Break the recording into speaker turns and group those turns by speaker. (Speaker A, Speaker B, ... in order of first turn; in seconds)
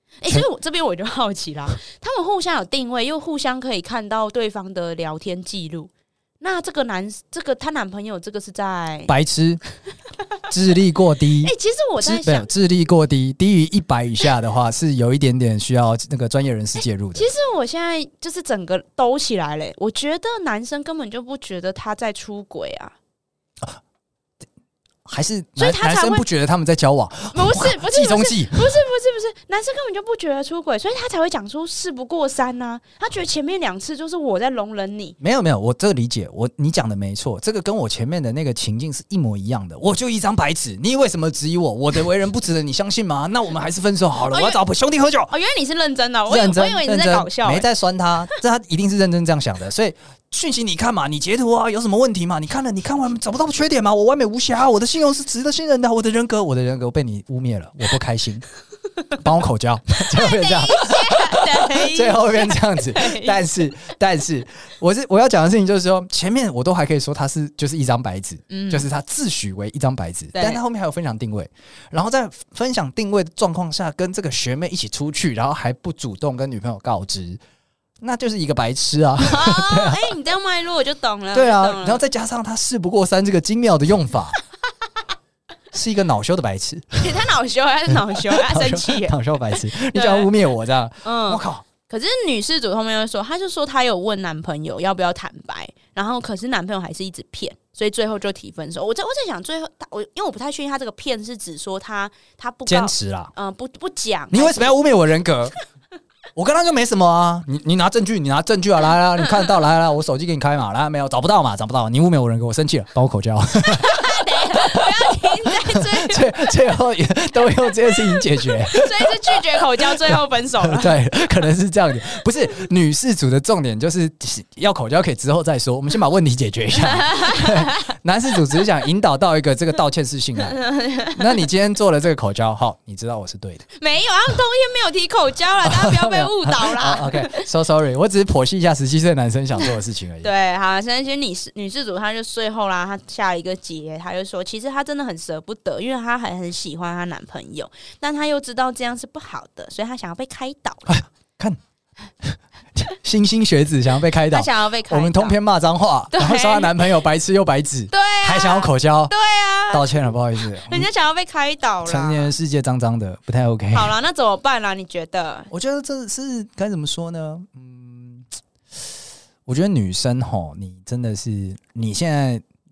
Speaker A: 0.2-9.1, 11.4-12.5, 17.1-22.9, 25.6-26.2, 27.3-35.2, 44.3-44.6, 45.3-47.7, 60.1-63.4, 68.5-68.9, 70.3-70.6, 79.2-82.0, 87.0-90.3, 91.0-104.8, 113.7-116.5, 117.9-120.9, 126.8-127.9, 130.5-131.3, 133.8-137.4, 140.2-150.8, 154.3-155.4, 156.1-156.7, 157.9-160.0, 160.7-162.3, 163.7-165.5
Speaker B: 9.1-9.6, 10.5-17.3, 25.1-28.7, 35.2-45.3, 46.3-58.5, 59.2-77.4, 78.0-80.1, 81.3-84.4, 85.7-87.2, 87.9-91.7, 102.7-103.3, 104.3-105.6, 106.4-130.6, 131.1-133.7, 135.6-140.3, 150.9-151.6, 152.2-159.1, 159.7-160.9, 161.8-163.9, 165.5-168.3, 169.5-172.4